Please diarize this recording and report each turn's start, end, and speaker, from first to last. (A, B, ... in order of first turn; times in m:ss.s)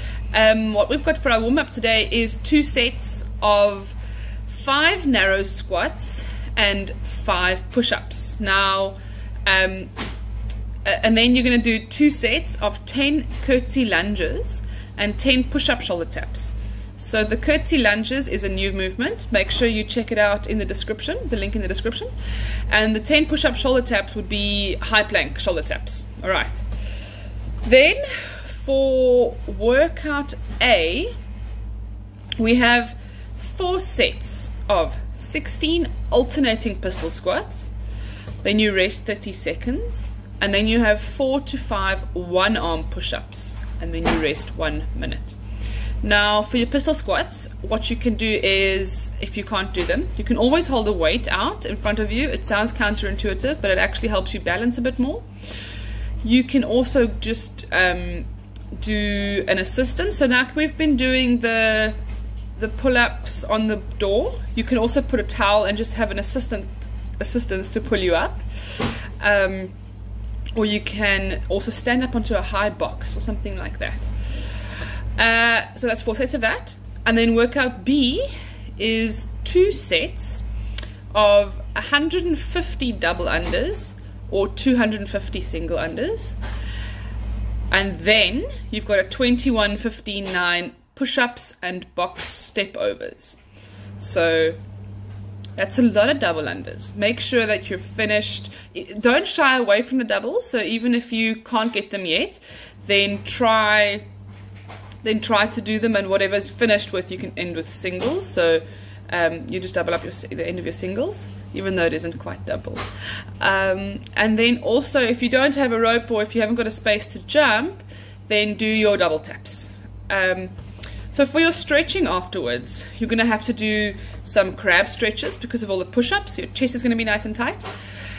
0:00.3-0:04.0 A
0:04.5-0:09.9 A
0:10.8-0:22.1 A
0:22.7-0:26.6 A
0:27.6-0:31.1 A
0:32.4-0:37.7 A
0:38.4-0:45.4 A
0:46.0-0:55.3 A
0:56.2-1:02.0 A
1:02.6-1:09.7 A
1:10.5-1:14.1 A
1:15.2-1:20.4 A
1:21.1-1:26.4 A
1:27.7-1:33.4 A
1:34.0-1:34.6 A
1:35.6-1:44.0 A
1:45.0-1:52.8 A
1:53.4-2:00.5 A
2:01.1-2:07.7 A